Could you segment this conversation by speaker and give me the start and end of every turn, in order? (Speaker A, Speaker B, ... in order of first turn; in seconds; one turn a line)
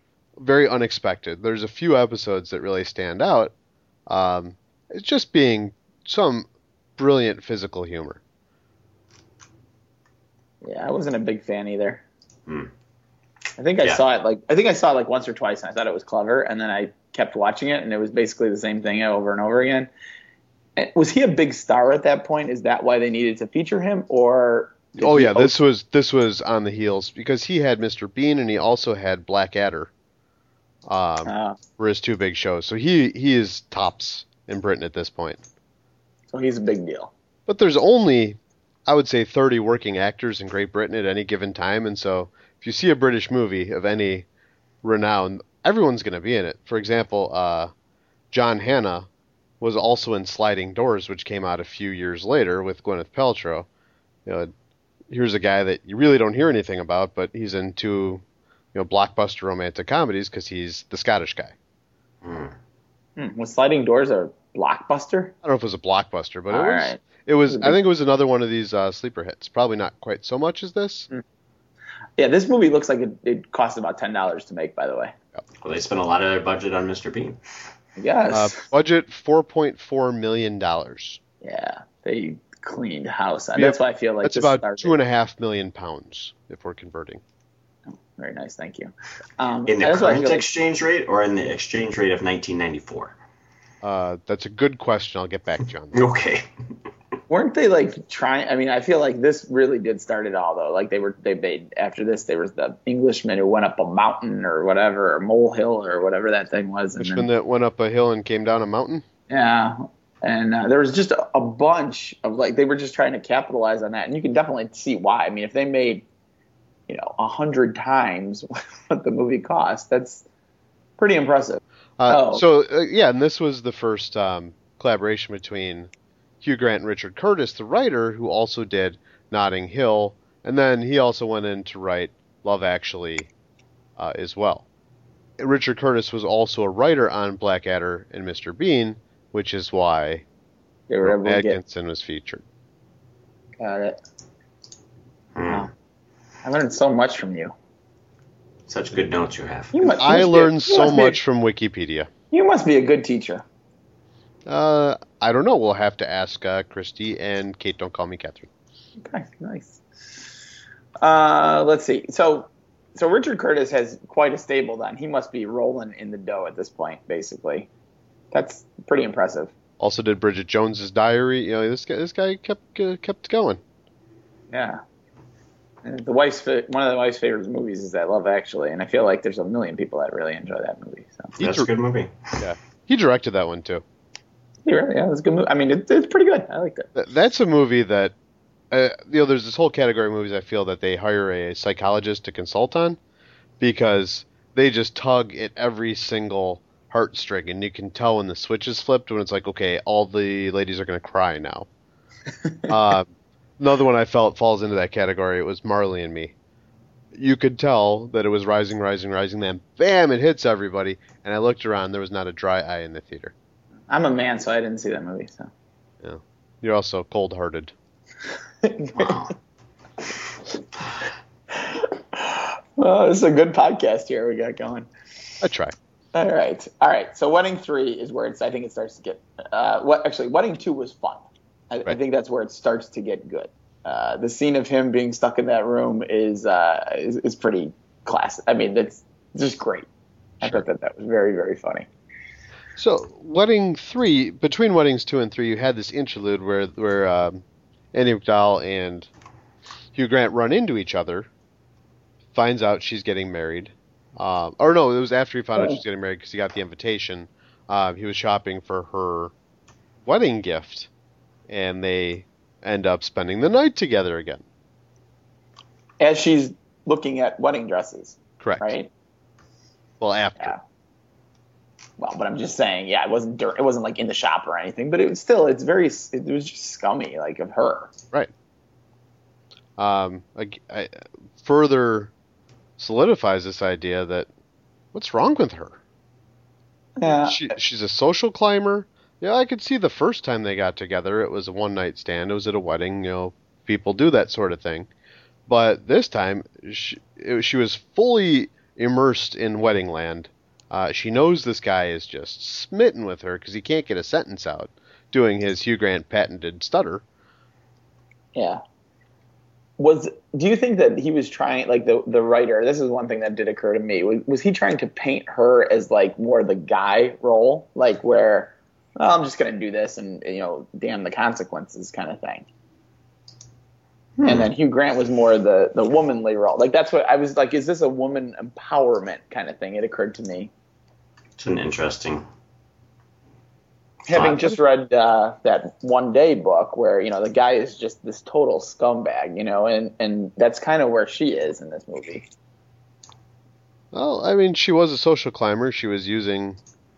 Speaker A: 0.4-3.5
Speaker A: 4.1-8.2
Speaker B: 10.6-12.0
Speaker B: 13.6-19.9
Speaker B: 20.8-25.6
Speaker A: 25.0-29.9
Speaker A: 30.9-35.4
Speaker B: 31.2-31.6
Speaker B: 36.3-37.1
Speaker A: 37.5-44.2
Speaker A: 44.8-47.7
Speaker A: 48.3-49.1
Speaker A: 49.6-53.7
Speaker A: 54.2-54.5
Speaker A: 55.1-61.5
Speaker C: 62.2-62.5
Speaker B: 63.2-65.3
Speaker A: 65.4-71.1
Speaker B: 66.5-67.8
Speaker B: 72.2-75.1
Speaker C: 75.6-77.4
Speaker B: 78.0-78.6
Speaker A: 78.3-81.2
Speaker B: 81.4-84.9
Speaker A: 83.5-87.2
Speaker B: 88.1-90.5
Speaker C: 89.7-93.1
Speaker A: 93.8-96.1
Speaker C: 95.9-96.4
Speaker B: 97.3-107.3
Speaker A: 107.0-109.0
Speaker B: 109.3-116.0
Speaker B: 116.9-120.2
Speaker B: 121.0-122.4
Speaker A: 122.0-125.9
Speaker A: 126.4-133.3
Speaker A: 134.0-134.6
Speaker A: 135.4-140.2
Speaker B: 140.9-141.6
Speaker A: 141.0-142.4
Speaker B: 143.6-144.0
Speaker C: 145.3-145.7
Speaker B: 146.4-147.5
Speaker C: 148.7-149.8
Speaker B: 149.7-151.2
Speaker A: 150.0-152.1
Speaker B: 152.3-153.4
Speaker A: 154.5-158.5
Speaker B: 159.0-159.8
Speaker B: 161.0-167.7
Speaker B: 168.3-169.5
Speaker A: 169.8-173.6
Speaker B: 174.5-174.8
Speaker B: 175.8-181.3
Speaker A: 181.4-181.7
Speaker C: 181.4-182.4
Speaker A: 182.4-183.8
Speaker B: 184.6-186.9
Speaker A: 186.9-188.1
Speaker A: 188.7-193.0
Speaker A: 193.6-201.7
Speaker A: 202.7-206.3
Speaker A: 207.1-213.3
Speaker B: 213.9-215.5
Speaker A: 216.0-217.7
Speaker B: 218.6-219.3
Speaker C: 219.0-219.3
Speaker B: 221.5-224.9
Speaker A: 225.4-225.7
Speaker B: 226.1-239.9
Speaker B: 240.4-241.9
Speaker A: 242.8-249.1
Speaker A: 249.9-251.3
Speaker A: 252.3-259.3
Speaker A: 260.0-260.9
Speaker A: 261.5-264.4
Speaker B: 266.0-268.9
Speaker A: 268.4-268.7
Speaker A: 270.0-270.5
Speaker B: 272.0-277.9
Speaker A: 279.8-282.1
Speaker A: 282.8-284.3
Speaker A: 284.9-285.8
Speaker B: 287.0-287.6
Speaker A: 287.2-294.9
Speaker A: 295.5-307.0
Speaker B: 308.3-308.6
Speaker B: 309.8-322.5
Speaker B: 324.2-330.5
Speaker C: 331.4-332.2
Speaker B: 334.1-342.3
Speaker C: 334.1-334.4
Speaker A: 343.9-346.6